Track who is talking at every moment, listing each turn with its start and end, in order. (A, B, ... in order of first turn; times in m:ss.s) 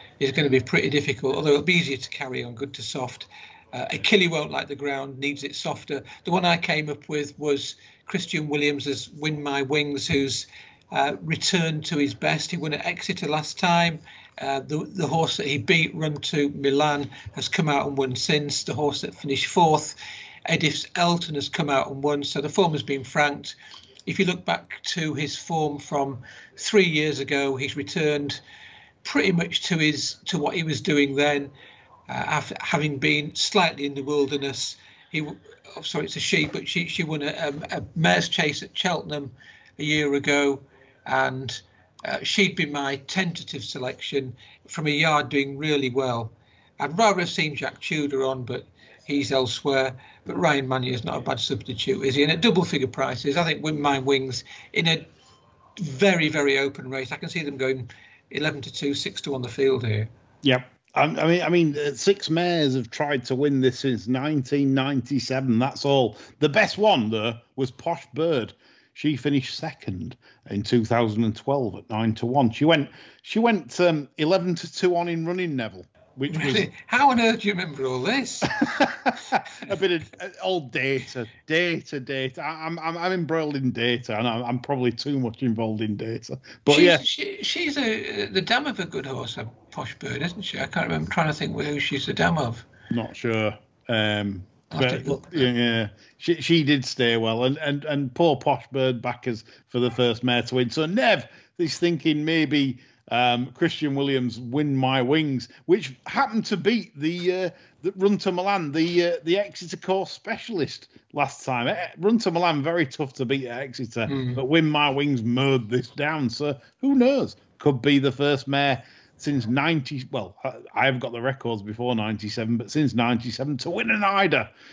0:00.2-0:28.4 A
0:29.0-0:31.5 A
0:32.1-0:55.1 A
0:55.8-1:00.1 A
1:00.4-1:16.7 B
1:16.3-1:18.5 A
1:18.6-1:27.0 B
1:26.7-1:32.6 A
1:32.9-2:04.5 B
1:34.7-1:35.3 A
1:54.1-1:54.4 A